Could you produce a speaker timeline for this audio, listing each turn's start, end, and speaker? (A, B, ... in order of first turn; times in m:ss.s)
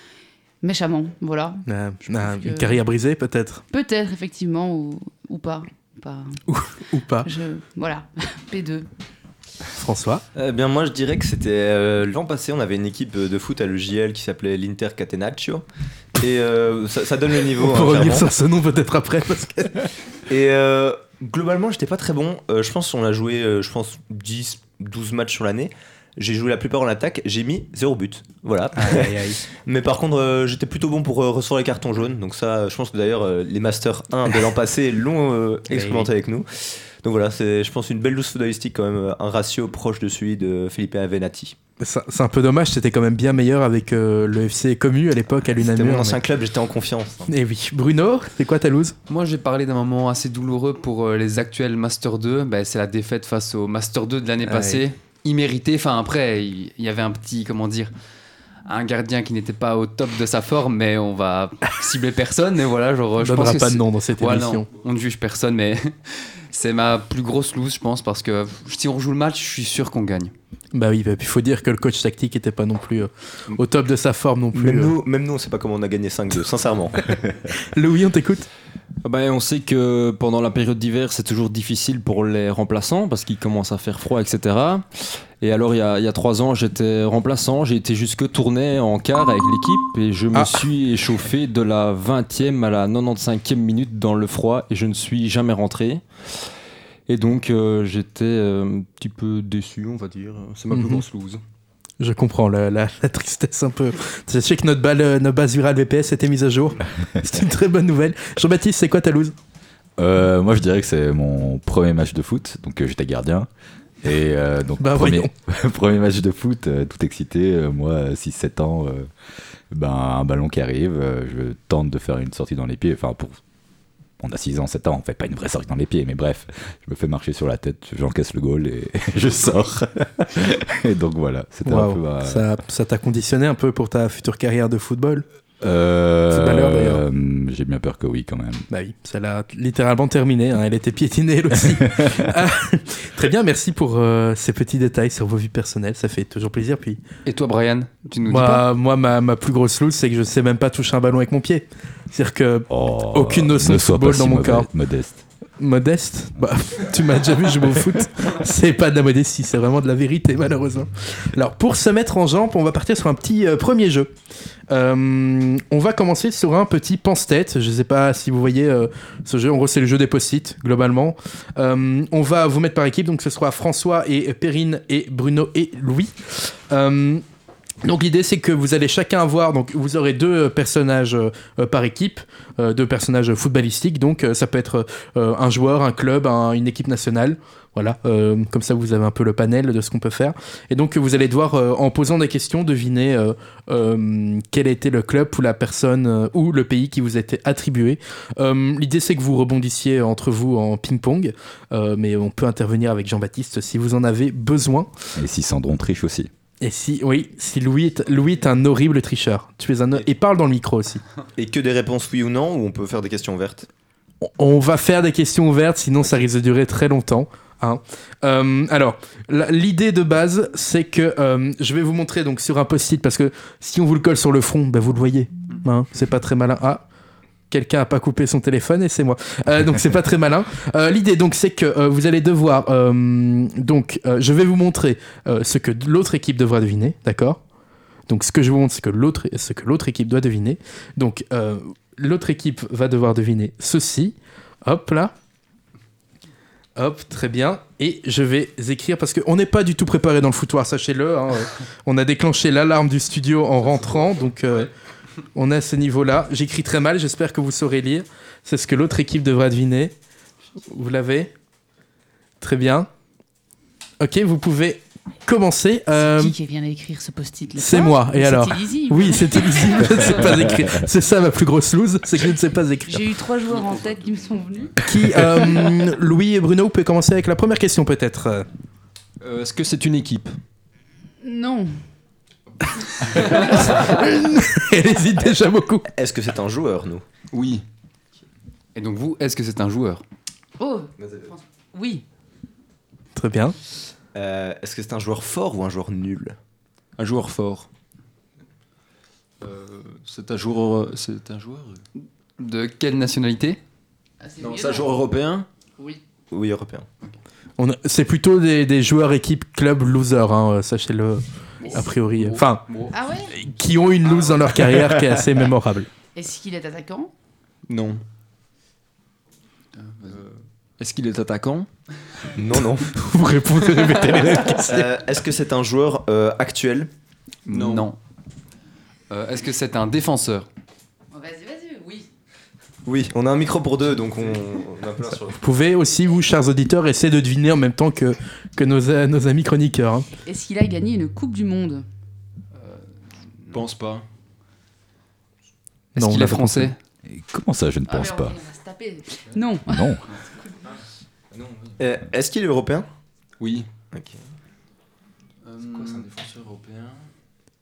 0:00.6-0:02.8 A
0:01.7-0:03.6 B
0:03.7-0:06.4 A
0:06.5-0:07.3 B
0:07.2-0:08.9 A
0:09.7-0:10.2 B
0:10.3-0:15.6 C
0:16.2-0:18.3 C
0:17.6-0:19.9 B
0:20.3-0:41.5 C
0:28.8-0:29.4 B
0:35.7-0:36.1 B
0:41.8-0:46.2 B
0:45.5-0:47.3 C
0:47.3-0:48.9 B
0:49.1-0:57.9 D
0:54.4-0:54.8 B
0:58.6-1:10.3 D
1:03.2-1:04.7 B
1:10.7-1:14.9 B
1:14.5-1:17.1 C
1:17.7-1:18.5 B
1:19.0-1:36.0 E
1:30.3-1:30.6 B
1:37.1-1:41.4 E
1:40.7-1:41.0 B
1:42.0-1:49.3 B
1:50.0-1:53.5 F
1:54.0-1:59.1 F
1:54.8-1:55.3 B
1:59.7-2:03.4 F
2:04.2-2:12.4 F
2:11.6-2:15.2 B
2:15.6-2:18.6 F
2:16.3-2:17.0 B
2:18.7-2:27.0 B
2:27.2-2:28.6 D
2:28.3-2:34.7 B
2:32.7-2:35.2 F
2:35.6-2:44.1 B
2:44.7-2:57.2 B
2:57.8-3:24.9 B
3:25.2-3:26.3 F
3:26.6-3:31.0 B
3:31.4-3:33.7 C
3:34.2-3:46.8 B
3:47.5-3:57.4 B
3:58.1-4:05.1 B
4:06.8-4:14.7 B
4:15.3-4:19.9 B
4:20.7-4:21.3 B
4:22.4-4:22.9 B
4:24.0-4:26.3 B
4:25.9-4:30.2 A
4:27.6-4:33.0 B
4:32.8-4:34.8 A
4:34.8-4:38.4 B
4:39.2-4:40.3 E
4:41.2-4:41.8 A
4:43.1-4:45.9 B
4:43.1-4:43.7 D
4:45.9-4:47.0 C
4:47.3-4:47.6 E
4:48.7-4:50.0 D
4:50.6-4:52.0 A
4:51.0-4:51.3 C
4:53.2-4:53.5 B
4:54.1-4:56.4 C
4:57.0-4:57.7 E
4:59.4-5:01.8 E
5:02.4-5:03.6 D
5:04.2-5:05.1 A
5:04.4-5:05.4 E
5:06.3-5:06.8 C
5:07.6-5:11.2 B
5:11.6-5:11.9 A
5:11.7-5:12.6 B
5:12.2-5:12.9 D
5:12.9-5:13.3 A
5:13.3-5:15.9 B
5:16.1-5:17.1 A
5:17.7-5:18.0 E
5:20.0-5:21.7 E
5:22.3-5:22.9 C
5:22.9-5:24.9 B
5:24.5-5:26.9 C
5:27.5-5:28.0 D
5:27.5-5:27.9 E
5:29.1-5:30.5 D
5:31.1-5:32.1 A
5:32.8-5:35.4 C
5:35.4-5:40.1 B
5:40.2-5:41.8 A
5:43.5-5:44.0 E
5:46.0-5:46.7 B
5:46.0-5:46.8 D
5:47.0-5:48.4 F
5:47.8-5:50.4 A
5:49.6-5:50.0 F
5:51.3-5:51.8 E
5:51.8-5:52.9 C
5:53.4-5:53.7 E
5:53.9-5:54.2 C
5:55.4-5:56.1 D
5:55.5-5:57.0 E